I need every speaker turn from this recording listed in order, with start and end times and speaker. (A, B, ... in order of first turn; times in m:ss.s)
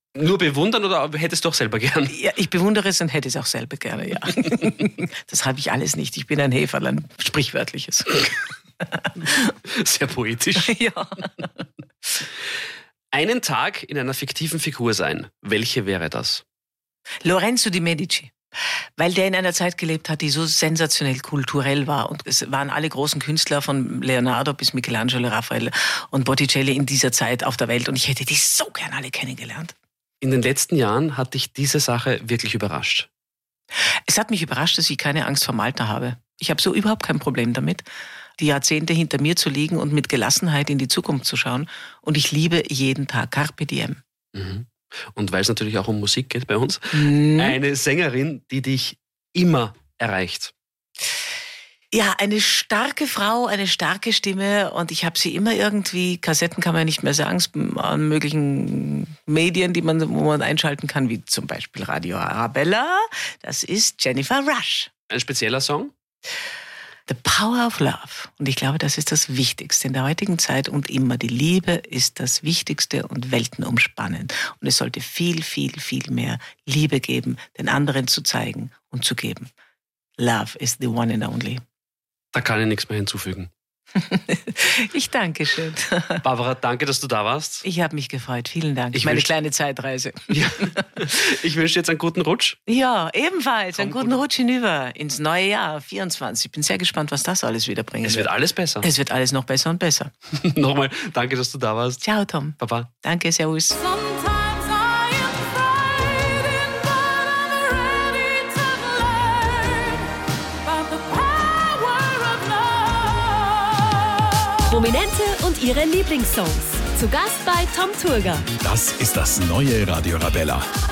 0:00.2-0:02.1 A
0:02.1-0:08.3 B
0:09.5-0:10.8 A
0:10.6-0:11.5 B
0:13.1-0:16.4 A
0:17.2-0:18.3 B
0:19.0-0:29.7 B
0:30.2-0:33.1 A
0:34.1-0:37.9 B
0:38.4-0:44.0 B
0:44.4-0:50.5 A
0:46.9-0:47.6 B
0:51.9-1:04.9 B
1:05.1-1:05.9 A
1:07.1-1:19.5 B
1:20.2-1:21.6 B
1:22.3-1:23.5 A
1:24.0-1:26.2 B
1:26.2-1:27.6 A
1:27.6-1:30.8 B
1:28.9-1:29.3 A
1:30.3-1:32.6 A
1:32.7-1:40.1 B
1:33.8-1:34.2 A
1:38.0-1:38.9 A
1:40.4-1:42.0 A
1:42.0-1:43.9 B
1:42.6-1:42.9 A
1:43.9-1:49.9 C
1:50.8-1:53.4 C
1:54.6-1:58.5 D
1:58.6-2:00.7 E